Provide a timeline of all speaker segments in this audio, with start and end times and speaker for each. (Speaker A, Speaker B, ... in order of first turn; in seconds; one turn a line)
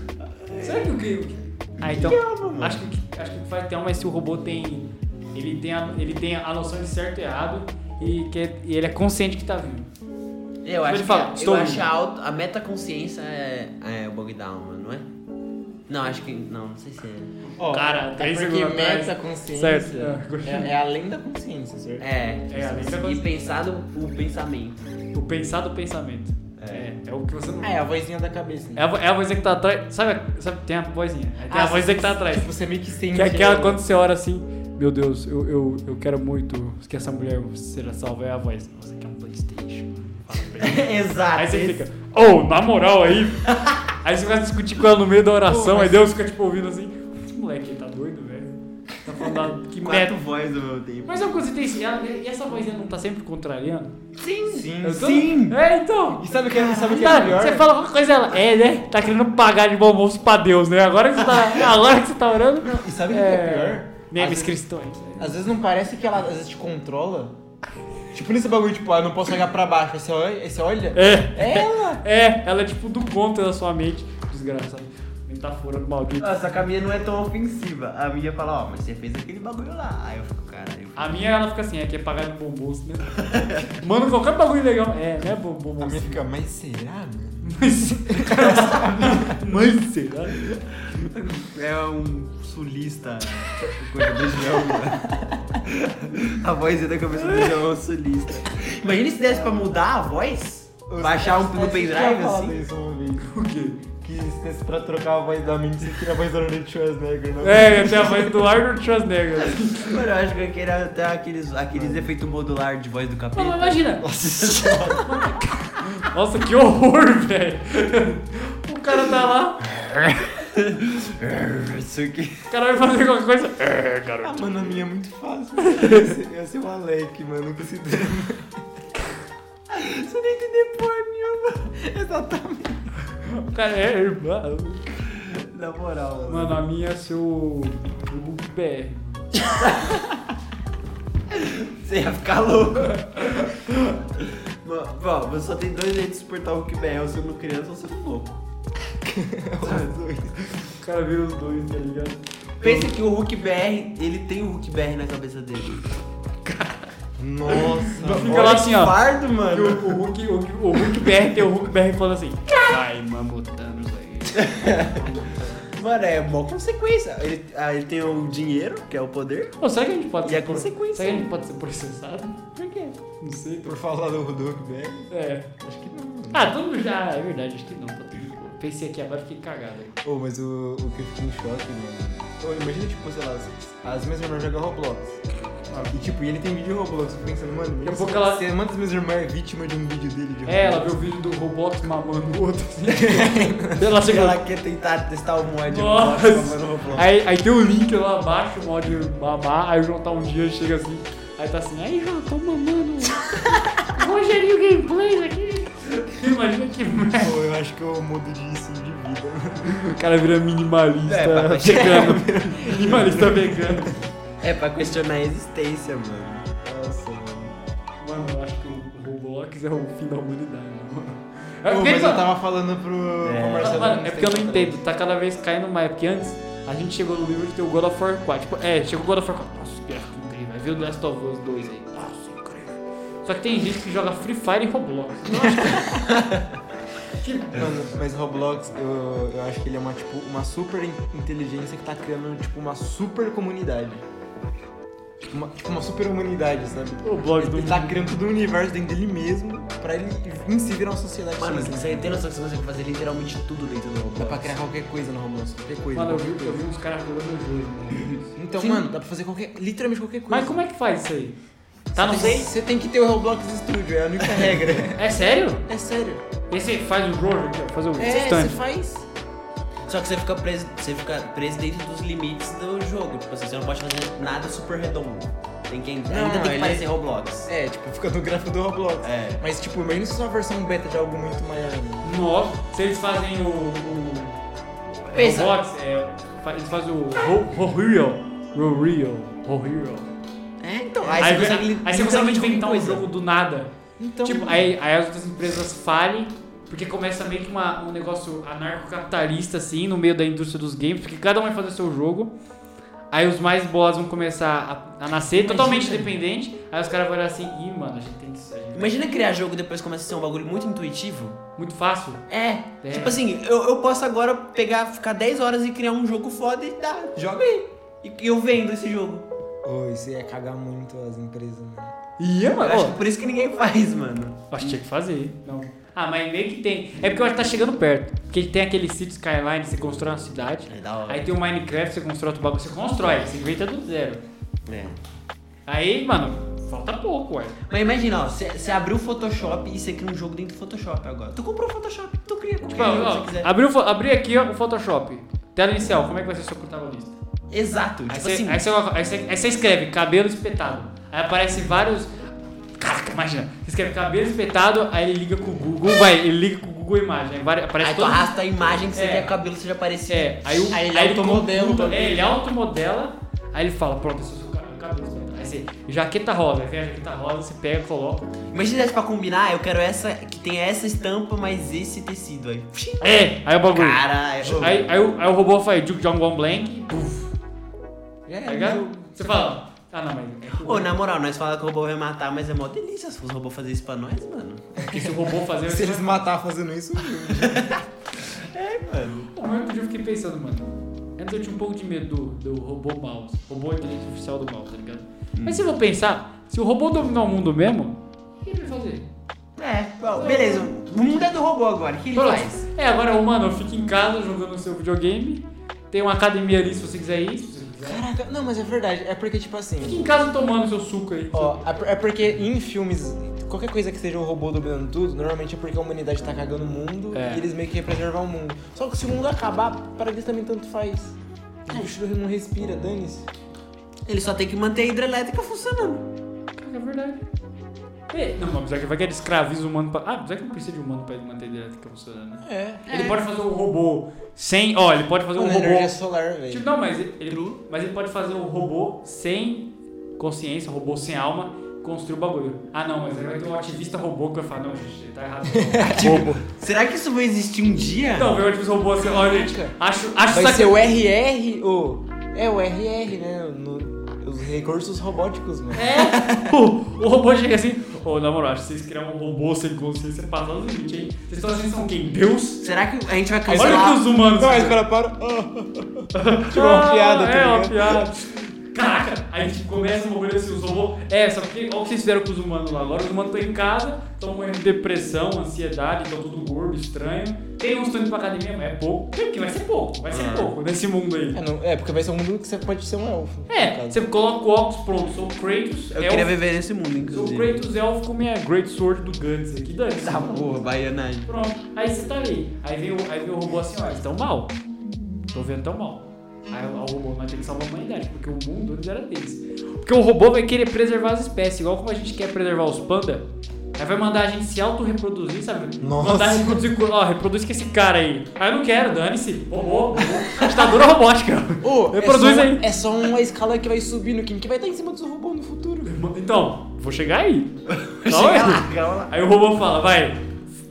Speaker A: 0.4-0.9
Speaker B: 0.6-9.9
Speaker A: 1.8-2.9
Speaker A: 10.6-15.1
Speaker B: 10.8-11.9
Speaker A: 15.9-17.3
Speaker C: 17.6-22.1
Speaker B: 17.6-20.7
Speaker A: 22.0-24.8
Speaker B: 22.5-23.6
Speaker B: 25.1-27.8
Speaker A: 26.6-26.9
Speaker C: 27.6-28.9
Speaker B: 28.8-32.5
Speaker C: 31.5-33.8
Speaker B: 33.1-43.5
Speaker A: 40.6-41.8
Speaker A: 43.5-43.8
Speaker B: 44.0-50.1
Speaker C: 45.4-46.1
Speaker A: 49.8-51.4
Speaker B: 51.1-53.9
Speaker A: 54.2-55.6
Speaker C: 54.5-55.2
Speaker B: 54.8-65.3
Speaker C: 56.2-57.7
Speaker A: 56.5-57.4
Speaker C: 62.6-64.6
Speaker C: 65.2-67.3
Speaker C: 68.1-72.0
Speaker B: 70.9-76.6
Speaker A: 76.2-81.2
Speaker B: 81.0-86.2
Speaker A: 83.1-83.7
Speaker C: 85.8-89.4
Speaker B: 87.4-90.5
Speaker A: 90.9-102.6
Speaker C: 97.2-97.5
Speaker C: 100.9-103.3
Speaker B: 103.2-103.8
Speaker C: 104.0-108.5
Speaker B: 107.4-110.0
Speaker A: 109.6-115.0
Speaker C: 111.7-112.1
Speaker B: 113.3-114.0
Speaker C: 114.0-115.1
Speaker B: 115.0-119.7
Speaker A: 119.9-122.5
Speaker B: 122.5-124.8
Speaker C: 124.2-128.6
Speaker B: 125.6-126.1
Speaker A: 129.7-131.7
Speaker C: 131.8-132.8
Speaker B: 133.2-134.8
Speaker A: 135.1-136.6
Speaker B: 136.3-139.3
Speaker A: 139.5-140.1
Speaker A: 141.3-148.4
Speaker B: 143.3-143.8
Speaker C: 149.0-150.5
Speaker B: 150.6-152.2
Speaker A: 152.6-155.9
Speaker C: 152.6-152.9
Speaker B: 156.4-156.8
Speaker C: 157.2-158.6
Speaker A: 157.6-160.0
Speaker B: 158.0-159.0
Speaker B: 159.5-165.1
Speaker A: 164.3-165.1
Speaker C: 165.1-165.5
Speaker A: 165.6-169.6
Speaker B: 169.6-172.4
Speaker A: 170.2-171.3
Speaker A: 172.6-173.0
Speaker B: 173.2-173.8
Speaker C: 173.6-176.5
Speaker B: 175.1-175.5
Speaker B: 176.3-179.9
Speaker C: 180.0-185.2
Speaker B: 185.7-186.0
Speaker C: 185.9-191.1
Speaker B: 187.8-188.5
Speaker B: 190.4-194.4
Speaker C: 192.9-193.9
Speaker A: 194.0-197.1
Speaker B: 195.7-203.2
Speaker B: 203.9-207.4
Speaker C: 207.2-209.9
Speaker B: 209.7-214.0
Speaker A: 211.1-212.2
Speaker C: 211.7-214.0
Speaker A: 214.4-216.5
Speaker C: 216.6-217.5
Speaker B: 218.0-222.3
Speaker C: 221.7-224.8
Speaker A: 223.2-223.8
Speaker B: 223.6-235.8
Speaker A: 235.4-236.5
Speaker C: 235.5-236.0
Speaker B: 237.2-237.7
Speaker C: 237.5-244.0
Speaker C: 245.2-252.2
Speaker B: 247.0-248.1
Speaker A: 251.4-254.5
Speaker C: 254.2-256.6
Speaker B: 255.9-258.3
Speaker C: 258.4-260.6
Speaker A: 258.6-258.9
Speaker B: 260.3-261.4
Speaker B: 261.9-262.5
Speaker C: 261.9-265.1
Speaker A: 262.0-262.3
Speaker B: 265.0-265.6
Speaker C: 265.7-266.2
Speaker B: 266.5-268.6
Speaker C: 267.9-269.1
Speaker A: 269.9-277.5
Speaker C: 276.1-276.9
Speaker C: 277.5-282.1
Speaker A: 279.0-279.4
Speaker B: 282.0-284.4
Speaker A: 285.1-285.6
Speaker B: 285.1-290.1
Speaker A: 290.6-293.0
Speaker C: 291.0-291.5
Speaker B: 291.2-293.7
Speaker C: 294.0-294.7
Speaker B: 294.2-302.3
Speaker B: 303.1-309.0
Speaker C: 305.4-306.0
Speaker A: 305.5-306.0
Speaker A: 308.7-311.4
Speaker B: 311.6-312.2
Speaker A: 312.3-319.2
Speaker B: 312.8-313.2
Speaker C: 319.6-322.0
Speaker B: 322.2-323.0
Speaker A: 322.6-324.8
Speaker B: 324.5-334.2
Speaker A: 330.7-331.3
Speaker A: 334.6-335.0
Speaker B: 335.7-337.6
Speaker A: 337.7-343.5
Speaker B: 342.7-347.2
Speaker A: 347.5-348.6
Speaker B: 348.1-352.1
Speaker B: 352.8-358.3
Speaker A: 357.8-360.7
Speaker B: 358.9-359.3
Speaker B: 360.1-368.3
Speaker C: 360.7-362.3
Speaker A: 368.5-373.2
Speaker B: 373.0-377.3
Speaker A: 373.7-374.8
Speaker C: 378.3-379.3
Speaker B: 378.4-380.9
Speaker A: 380.6-384.7
Speaker B: 384.8-386.3
Speaker C: 384.8-387.8
Speaker A: 387.2-389.3
Speaker B: 389.3-399.1
Speaker A: 395.3-395.6
Speaker A: 399.6-402.6
Speaker B: 400.2-400.7
Speaker B: 402.1-408.0
Speaker C: 407.8-410.1
Speaker B: 409.8-411.6
Speaker C: 411.3-423.3
Speaker B: 417.1-417.4
Speaker A: 424.1-426.1
Speaker B: 426.6-427.2
Speaker B: 428.1-436.0
Speaker C: 432.4-433.2
Speaker C: 435.3-436.7
Speaker B: 436.5-446.4
Speaker A: 437.3-437.6
Speaker C: 445.5-446.4
Speaker A: 446.4-448.4
Speaker B: 448.1-450.9
Speaker C: 449.0-449.7
Speaker C: 450.3-456.5
Speaker B: 455.7-462.6
Speaker A: 462.6-464.1
Speaker B: 463.5-464.7
Speaker C: 464.4-468.1
Speaker B: 466.1-481.4
Speaker A: 480.1-480.5
Speaker C: 481.3-484.0
Speaker B: 483.5-486.3
Speaker A: 485.9-487.6
Speaker B: 487.0-490.5
Speaker A: 490.0-491.3
Speaker B: 491.2-494.5
Speaker B: 495.3-512.6
Speaker C: 505.8-506.6
Speaker C: 511.6-515.9
Speaker B: 515.8-520.3
Speaker A: 517.7-519.1